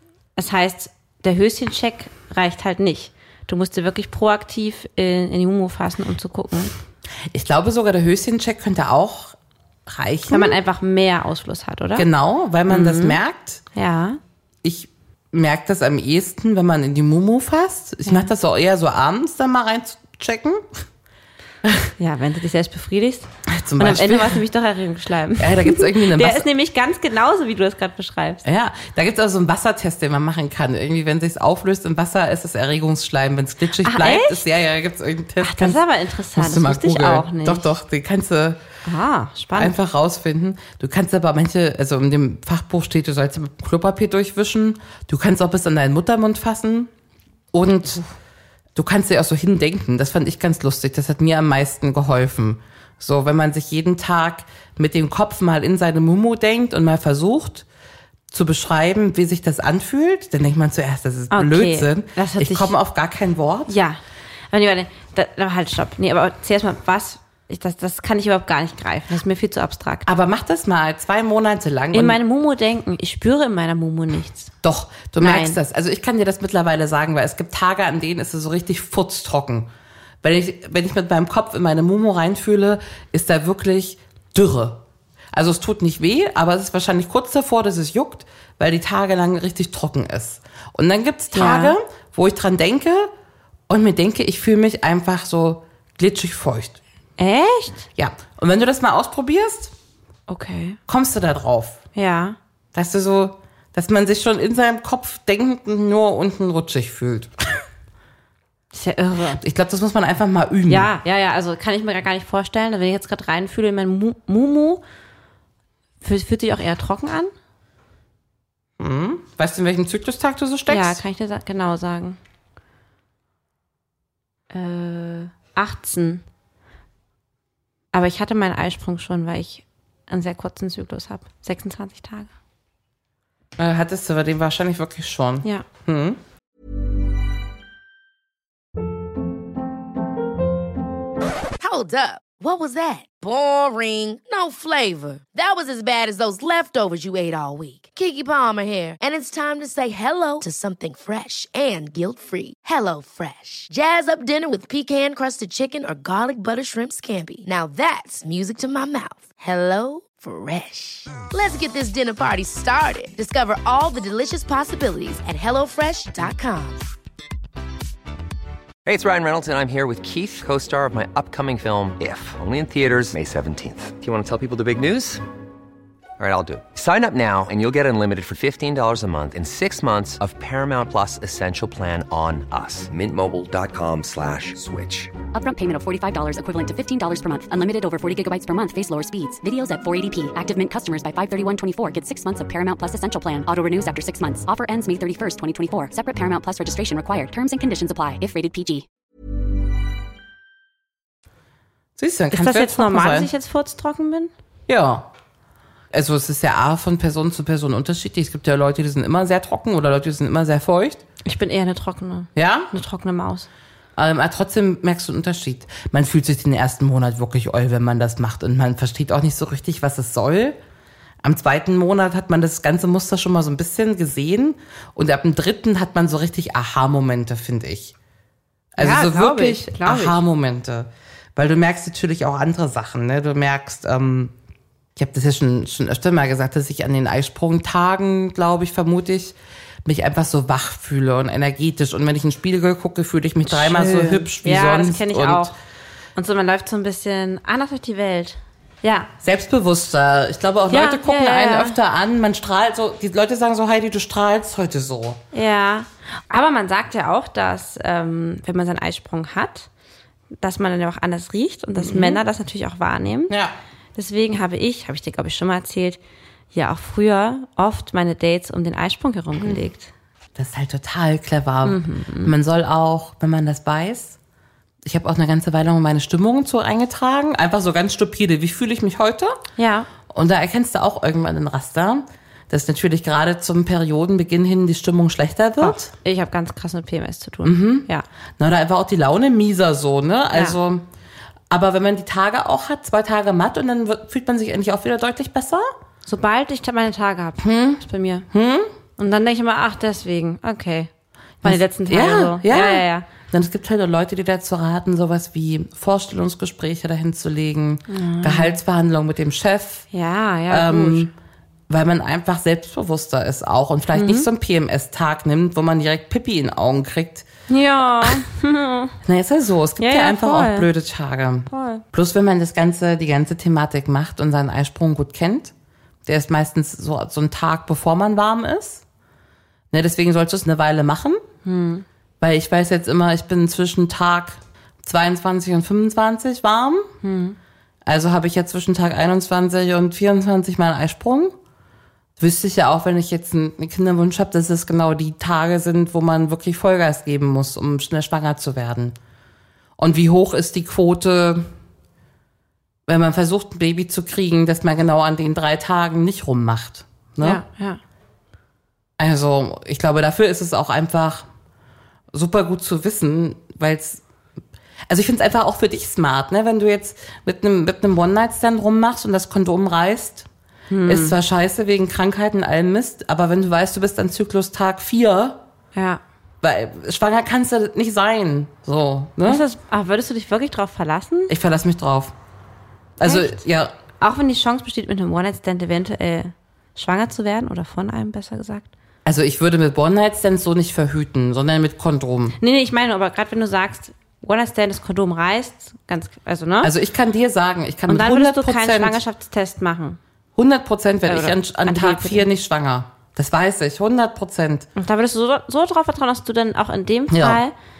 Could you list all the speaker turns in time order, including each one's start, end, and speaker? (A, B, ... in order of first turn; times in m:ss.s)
0:00.4-0:06.7 A
0:07.3-0:09.4 B
0:09.9-0:10.6 B
0:10.3-0:12.1 A
0:12.0-0:13.6 B
0:12.7-0:13.2 A
0:13.7-0:14.2 A
0:14.6-0:20.7 B
0:21.6-0:21.9 B
0:22.0-0:28.4 A
0:23.5-0:24.4 B
0:25.4-0:26.5 B
0:28.4-0:35.8 B
0:33.8-0:34.4 A
0:35.4-0:37.7 A
0:36.3-0:38.6 B
0:38.8-0:39.8 A
0:39.5-0:46.9 B
0:47.5-0:48.0 B
0:48.7-0:57.6 B
0:58.3-1:03.7 B
1:01.3-1:02.7 A
1:03.7-1:04.0 A
1:04.5-1:10.1 A
1:10.0-1:12.2 B
1:11.9-1:14.5 A
1:14.6-1:19.7 B
1:15.2-1:15.6 A
1:20.2-1:33.1 B
1:31.3-1:31.8 A
1:33.7-1:36.8 B
1:37.2-1:37.9 A
1:38.0-1:39.7 B
1:40.3-1:40.8 A
1:40.9-1:41.8 B
1:41.9-1:42.4 A
1:42.7-1:47.6 B
1:48.7-1:49.4 A
1:49.4-1:50.9 B
1:50.7-1:54.8 A
1:56.0-1:57.3 A
1:58.8-2:01.0 B
2:00.7-2:02.2 A
2:04.5-2:06.2 A
2:07.9-2:12.3 A
2:13.6-2:16.2 B
2:21.6-2:46.8 C
2:48.8-2:55.2 D
2:56.2-3:05.2 D
3:05.3-3:18.8 E
3:22.0-3:23.3 B
3:22.3-3:24.3 A
3:24.7-3:25.1 B
3:25.9-3:31.0 B
3:31.2-3:33.5 A
3:32.4-3:32.7 B
3:34.0-3:40.6 B
3:41.2-3:47.9 B
3:48.7-3:54.3 B
3:48.8-3:50.2 A
3:55.0-4:05.5 B
4:03.5-4:05.5 A
4:06.2-4:09.1 A
4:09.2-4:15.2 B
4:10.7-4:11.8 A
4:15.3-4:19.7 A
4:20.4-4:23.3 A
4:21.8-4:22.2 B
4:23.3-4:23.5 B
4:24.0-4:26.0 A
4:26.5-4:29.9 A
4:29.4-4:29.6 B
4:30.3-4:34.2 B
4:31.6-4:32.3 A
4:34.8-4:39.4 B
4:39.6-4:39.9 A
4:40.1-4:45.9 B
4:45.6-4:48.0 A
4:47.4-4:47.9 B
4:48.4-4:50.8 B
4:51.5-4:55.7 B
4:56.0-4:58.3 A
4:57.4-4:58.7 B
4:59.0-5:00.9 A
5:01.4-5:03.0 A
5:01.4-5:09.9 B
5:07.9-5:08.6 A
5:09.9-5:11.1 A
5:10.5-5:11.1 B
5:11.7-5:17.2 B
5:13.9-5:14.3 A
5:17.5-5:18.9 A
5:19.0-5:25.5 B
5:19.8-5:20.7 A
5:21.5-5:21.8 A
5:26.0-5:28.8 B
5:29.7-5:31.2 B
5:31.4-5:31.8 A
5:32.2-5:36.9 B
5:37.0-5:37.4 A
5:37.8-5:41.4 B
5:42.2-5:49.0 B
5:49.8-5:51.5 B
5:52.9-5:57.4 B
5:57.2-5:57.8 A
5:59.0-6:01.3 B
6:02.1-6:04.0 B
6:04.9-6:10.3 B
6:10.7-6:11.2 A
6:10.8-6:15.4 B
6:15.7-6:16.0 A
6:16.4-6:19.4 B
6:19.2-6:21.3 A
6:21.3-6:22.1 B
6:23.0-6:23.7 B
6:23.0-6:23.3 A
6:24.0-6:28.7 A
6:29.0-6:32.4 B
6:32.4-6:36.7 A
6:36.6-6:39.0 B
6:37.9-6:40.0 A
6:40.4-6:44.7 B
6:41.1-6:42.2 A
6:44.8-6:47.5 A
6:47.1-6:47.4 B